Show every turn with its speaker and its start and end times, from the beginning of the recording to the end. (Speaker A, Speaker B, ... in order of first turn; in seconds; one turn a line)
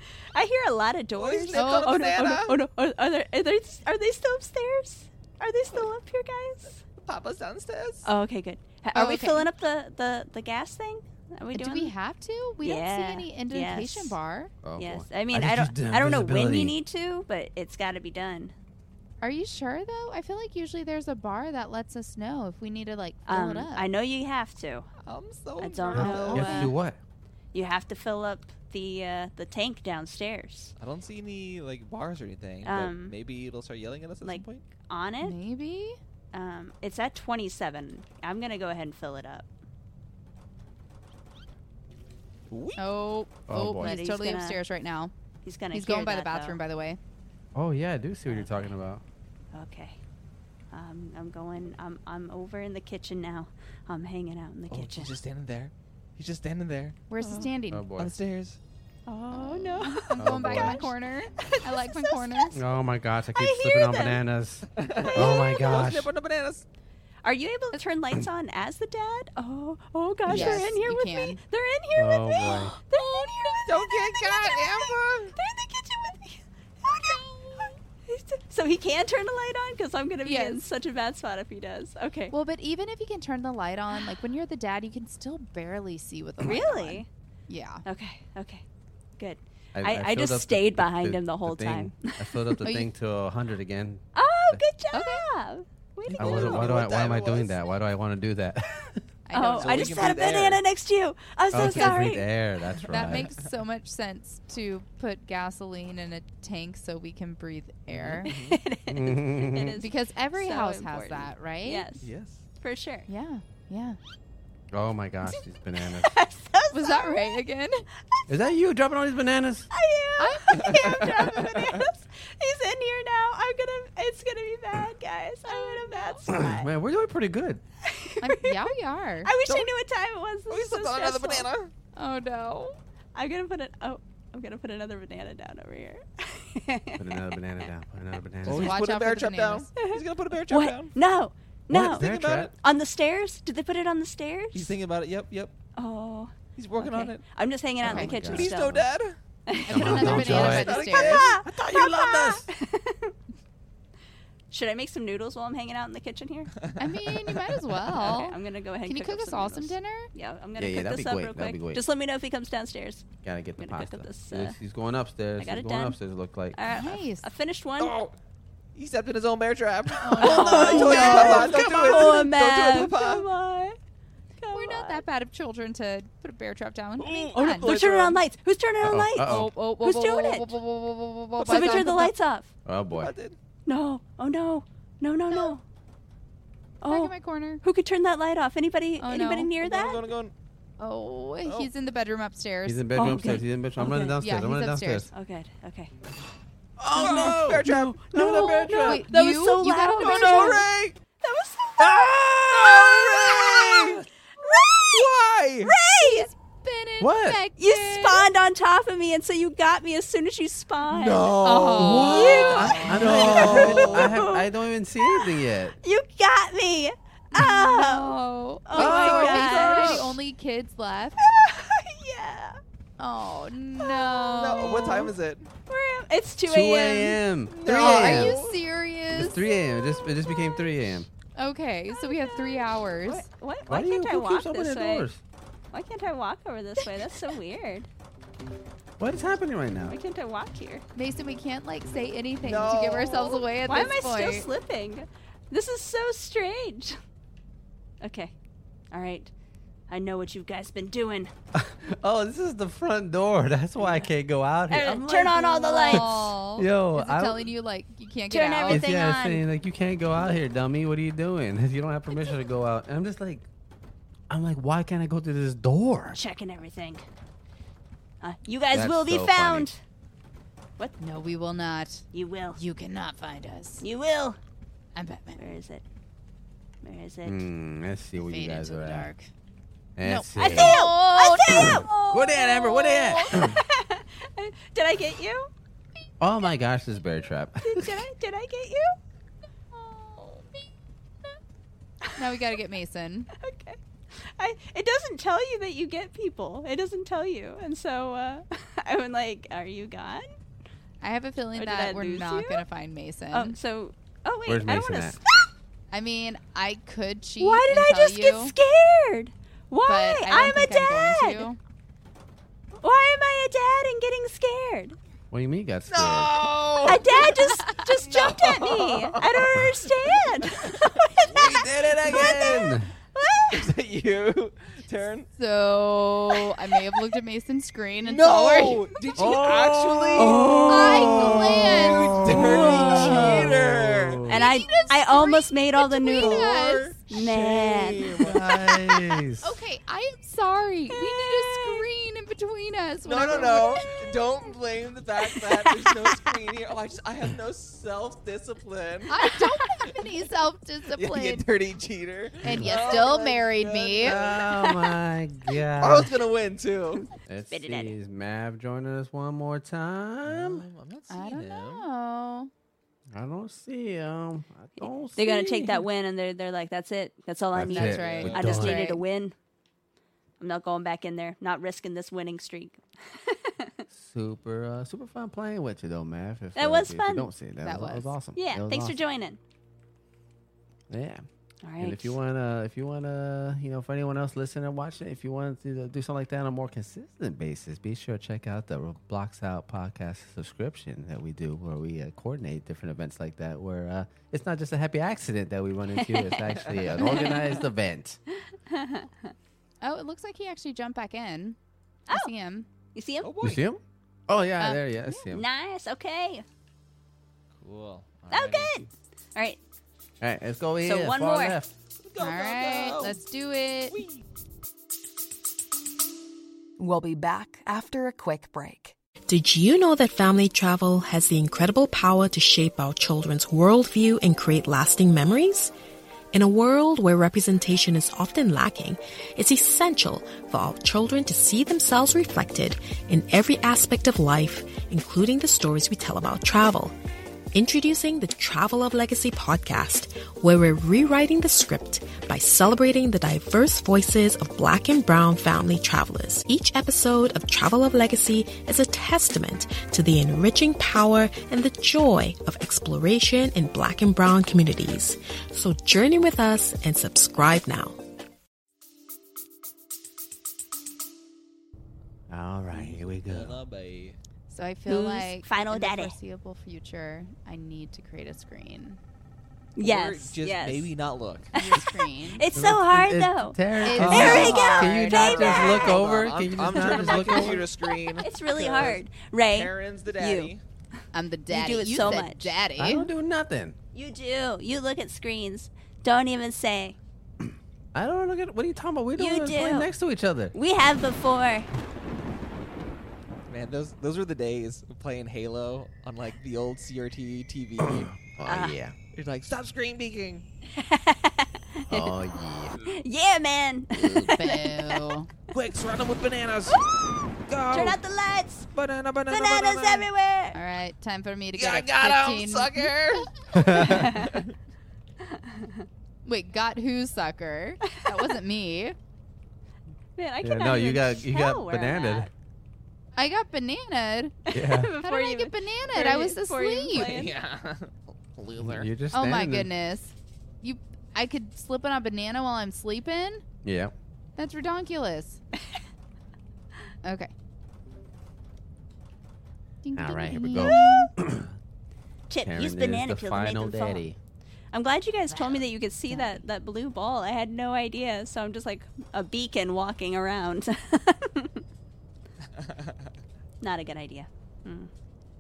Speaker A: 0.3-6.8
Speaker B: 1.1-2.6
Speaker C: 1.5-1.9
Speaker B: 7.0-8.1
Speaker A: 8.1-11.9
Speaker C: 8.9-9.5
Speaker C: 11.5-14.5
Speaker A: 12.6-14.2
Speaker D: 14.6-16.8
Speaker A: 14.8-18.5
Speaker C: 19.2-23.9
Speaker A: 23.3-24.9
Speaker B: 25.0-26.6
Speaker A: 25.6-26.7
Speaker D: 25.9-27.0
Speaker C: 26.2-26.7
Speaker A: 27.5-30.7
Speaker B: 30.8-34.7
Speaker A: 32.6-33.2
Speaker A: 34.2-35.4
Speaker C: 35.2-36.0
Speaker A: 36.3-39.5
Speaker B: 42.5-42.8
Speaker C: 42.8-45.1
Speaker D: 43.5-43.9
Speaker A: 43.8-44.6
Speaker A: 45.4-46.6
Speaker C: 45.7-47.0
Speaker D: 47.5-49.0
Speaker A: 48.3-48.8
Speaker A: 49.5-50.0
Speaker A: 50.7-55.1
Speaker B: 54.7-57.0
Speaker C: 57.1-57.9
Speaker A: 57.2-57.5
Speaker D: 57.7-58.2
Speaker B: 58.0-58.6
Speaker A: 59.1-62.6
Speaker C: 59.3-62.6
Speaker D: 60.1-60.8
Speaker D: 62.5-66.1
Speaker A: 63.4-64.2
Speaker B: 64.7-66.7
Speaker A: 65.2-65.7
Speaker A: 67.2-82.3
Speaker D: 70.3-70.7
Speaker C: 70.3-71.4
Speaker D: 72.0-72.7
Speaker C: 72.9-73.5
Speaker B: 73.7-75.4
Speaker C: 76.9-77.8
Speaker C: 80.2-80.6
Speaker C: 82.3-87.8
Speaker A: 86.4-87.1
Speaker A: 87.8-88.6
Speaker A: 89.2-92.9
Speaker D: 89.7-94.6
Speaker A: 94.2-96.9
Speaker C: 94.9-95.2
Speaker B: 96.1-97.6
Speaker D: 96.2-99.0
Speaker C: 99.3-100.2
Speaker A: 99.3-102.3
Speaker B: 99.5-100.6
Speaker D: 101.5-103.3
Speaker C: 101.5-102.2
Speaker B: 102.8-103.4
Speaker C: 102.9-108.3
Speaker B: 108.0-108.6
Speaker A: 108.3-112.1
Speaker D: 108.9-109.8
Speaker C: 109.8-111.8
Speaker B: 112.0-112.5
Speaker A: 112.6-113.1
Speaker C: 113.1-114.0
Speaker D: 114.7-116.2
Speaker A: 116.0-117.4
Speaker C: 116.7-117.8
Speaker A: 118.1-118.5
Speaker D: 118.3-119.7
Speaker A: 119.7-126.7
Speaker C: 120.2-121.3
Speaker B: 120.5-121.8
Speaker C: 125.5-126.2
Speaker D: 126.3-127.6
Speaker A: 127.8-128.7
Speaker C: 128.2-129.3
Speaker A: 129.2-131.5
Speaker B: 130.5-131.7
Speaker C: 132.0-132.8
Speaker A: 133.2-137.3
Speaker D: 137.0-138.8
Speaker B: 138.4-141.0
Speaker C: 138.5-139.7
Speaker A: 139.8-144.8
Speaker D: 141.7-142.5
Speaker B: 141.7-142.5
Speaker B: 144.5-145.6
Speaker A: 145.8-148.9
Speaker B: 146.6-147.2
Speaker D: 147.8-148.8
Speaker B: 147.9-149.2
Speaker A: 149.5-153.2
Speaker C: 149.7-151.3
Speaker D: 149.7-150.8
Speaker B: 149.8-151.7
Speaker D: 151.5-152.4
Speaker A: 154.5-156.5
Speaker B: 156.6-157.5
Speaker C: 156.8-160.1
Speaker A: 157.9-164.6
Speaker D: 160.6-161.8
Speaker D: 163.2-166.6
Speaker A: 165.4-166.0
Speaker A: 166.6-168.0
Speaker C: 166.7-167.2
Speaker B: 167.8-168.1
Speaker B: 168.8-173.3
Speaker C: 170.0-171.3
Speaker A: 170.2-173.8
Speaker D: 170.2-172.1
Speaker A: 174.4-175.0
Speaker C: 174.5-177.7
Speaker B: 177.0-178.2
Speaker A: 177.4-180.5
Speaker D: 178.8-179.5
Speaker C: 179.2-182.2
Speaker B: 181.4-182.1
Speaker A: 181.5-182.5
Speaker D: 182.7-183.1
Speaker B: 182.9-183.4
Speaker A: 183.7-185.6
Speaker A: 186.8-190.1
Speaker C: 186.9-187.6
Speaker C: 189.0-189.5
Speaker B: 189.6-190.3
Speaker C: 190.8-193.0
Speaker B: 191.4-191.7
Speaker D: 192.7-195.1
Speaker A: 193.0-194.2
Speaker C: 194.2-195.1
Speaker A: 195.1-195.9
Speaker D: 196.8-199.1
Speaker B: 196.9-199.1
Speaker A: 197.0-197.5
Speaker C: 198.2-200.6
Speaker A: 198.2-200.7
Speaker B: 200.0-201.0
Speaker A: 201.2-202.0
Speaker B: 201.8-204.1
Speaker A: 202.6-205.1
Speaker B: 204.8-205.7
Speaker A: 205.6-206.3
Speaker C: 206.0-208.3
Speaker D: 207.0-207.4
Speaker A: 207.6-211.3
Speaker B: 210.9-214.2
Speaker C: 211.4-213.6
Speaker D: 211.7-215.8
Speaker A: 212.0-214.5
Speaker A: 215.0-220.1
Speaker C: 217.3-221.2
Speaker D: 218.8-219.9
Speaker B: 219.6-220.0
Speaker A: 221.2-222.6
Speaker C: 223.0-225.1
Speaker A: 223.8-224.2
Speaker B: 224.2-225.5
Speaker A: 225.7-227.2
Speaker D: 226.5-228.4
Speaker B: 227.5-228.6
Speaker C: 227.7-229.5
Speaker D: 229.1-231.1
Speaker C: 231.4-233.3
Speaker A: 231.9-235.1
Speaker D: 233.7-235.2
Speaker A: 235.7-237.9
Speaker D: 239.0-240.0
Speaker A: 239.9-240.8
Speaker C: 240.9-244.5
Speaker B: 242.4-243.5
Speaker A: 243.7-247.0
Speaker A: 248.0-248.3
Speaker A: 248.9-249.3
Speaker A: 249.9-251.3
Speaker D: 251.6-257.5
Speaker A: 253.8-254.1
Speaker A: 254.7-256.2
Speaker C: 255.4-258.8
Speaker A: 258.3-259.4
Speaker D: 258.7-263.5
Speaker D: 264.3-266.2
Speaker A: 266.1-267.1
Speaker A: 268.2-269.8
Speaker D: 268.7-269.7
Speaker C: 271.0-272.1
Speaker A: 272.1-272.6
Speaker C: 272.6-273.9
Speaker A: 273.8-274.4
Speaker C: 274.9-275.4
Speaker A: 275.4-275.8
Speaker A: 276.8-277.4
Speaker D: 277.2-279.1
Speaker C: 278.2-279.3
Speaker D: 280.0-280.8
Speaker C: 280.0-282.1
Speaker A: 280.4-285.5
Speaker D: 281.5-283.6
Speaker C: 282.6-283.3
Speaker D: 286.2-288.1
Speaker A: 287.6-289.0
Speaker C: 289.7-290.6
Speaker A: 292.0-292.4
Speaker C: 292.1-293.3
Speaker A: 293.3-300.3
Speaker C: 301.0-303.6
Speaker A: 301.6-302.6
Speaker A: 303.3-305.5
Speaker D: 304.5-305.2
Speaker C: 305.9-308.5
Speaker A: 307.4-311.5
Speaker C: 309.9-311.6
Speaker A: 312.8-315.0
Speaker D: 315.3-316.5
Speaker B: 315.9-322.6
Speaker A: 316.8-323.7
Speaker D: 321.4-322.9
Speaker B: 323.5-325.3
Speaker C: 325.4-328.9
Speaker B: 328.0-334.3
Speaker D: 329.1-334.4
Speaker C: 330.7-332.3
Speaker C: 332.9-333.3
Speaker A: 334.3-338.3
Speaker C: 334.3-337.0
Speaker B: 336.2-338.4
Speaker D: 338.2-339.6
Speaker C: 339.4-343.9
Speaker A: 340.9-341.9
Speaker B: 343.1-349.3
Speaker A: 343.3-343.5
Speaker A: 345.6-346.1
Speaker C: 349.1-351.5
Speaker B: 350.9-354.4
Speaker C: 352.4-354.2
Speaker D: 352.5-353.1
Speaker D: 354.0-356.1
Speaker A: 354.5-354.9
Speaker B: 355.8-357.1
Speaker D: 357.3-360.7
Speaker A: 357.5-357.9
Speaker B: 360.3-361.9
Speaker C: 361.1-362.5
Speaker D: 363.1-365.9
Speaker A: 365.2-369.4
Speaker D: 367.5-368.9
Speaker C: 367.7-369.0
Speaker B: 367.9-368.6
Speaker A: 370.4-373.7
Speaker D: 373.9-379.0
Speaker A: 376.6-377.3
Speaker C: 377.6-378.1
Speaker A: 378.4-379.4
Speaker D: 380.9-381.2
Speaker A: 381.6-382.1
Speaker D: 381.8-398.2
Speaker A: 396.0-396.4
Speaker B: 396.7-397.4
Speaker A: 397.0-397.6
Speaker A: 398.7-399.3
Speaker C: 399.8-401.6
Speaker C: 402.1-402.7
Speaker A: 402.9-403.3
Speaker B: 403.2-403.7
Speaker D: 403.4-405.4
Speaker C: 404.6-405.3
Speaker A: 405.3-406.4
Speaker B: 407.6-408.7
Speaker A: 408.3-409.6
Speaker D: 410.2-411.7
Speaker A: 410.8-411.6
Speaker B: 412.0-413.2
Speaker C: 412.2-414.0
Speaker B: 413.9-414.2
Speaker E: 416.8-419.0
Speaker F: 419.3-425.7
Speaker F: 426.3-436.9
Speaker F: 437.5-458.0
Speaker D: 462.3-463.6
Speaker B: 462.7-464.2
Speaker C: 464.5-469.0
Speaker A: 464.9-466.2
Speaker A: 469.8-470.9
Speaker B: 469.8-471.9
Speaker C: 471.5-472.5
Speaker A: 471.5-480.5
Speaker D: 472.5-477.7
Speaker C: 473.8-475.2
Speaker B: 474.0-480.6
Speaker C: 481.1-483.1
Speaker A: 481.5-482.6
Speaker D: 482.8-483.8
Speaker A: 483.9-487.0
Speaker D: 487.9-490.6
Speaker A: 489.2-489.9
Speaker A: 490.6-491.7
Speaker B: 493.5-498.1
Speaker D: 497.8-498.9
Speaker A: 498.5-498.8
Speaker B: 499.1-500.5
Speaker A: 500.8-502.2
Speaker D: 501.9-502.7
Speaker A: 502.8-505.2
Speaker D: 503.9-504.3
Speaker C: 504.3-505.3
Speaker B: 505.5-506.9
Speaker A: 506.7-508.7
Speaker B: 507.5-508.0
Speaker B: 508.7-510.1
Speaker A: 509.3-510.6
Speaker C: 510.5-514.0
Speaker B: 511.5-513.3
Speaker D: 513.5-514.2
Speaker A: 513.8-514.4
Speaker B: 513.9-514.5
Speaker A: 515.2-515.9
Speaker C: 516.3-519.0
Speaker A: 520.2-522.3
Speaker D: 520.4-522.3
Speaker C: 523.2-524.4
Speaker A: 524.5-527.3
Speaker D: 524.5-525.0
Speaker C: 525.0-527.2
Speaker B: 527.0-528.9
Speaker D: 528.6-529.7
Speaker C: 529.1-533.4
Speaker D: 533.6-533.9
Speaker C: 534.4-535.4
Speaker C: 537.0-537.3
Speaker C: 539.8-541.1
Speaker D: 540.0-541.5
Speaker A: 540.6-541.1
Speaker A: 542.3-544.0
Speaker D: 542.4-544.2
Speaker A: 544.7-551.6
Speaker C: 545.3-546.4
Speaker B: 552.6-552.9
Speaker A: 553.6-554.9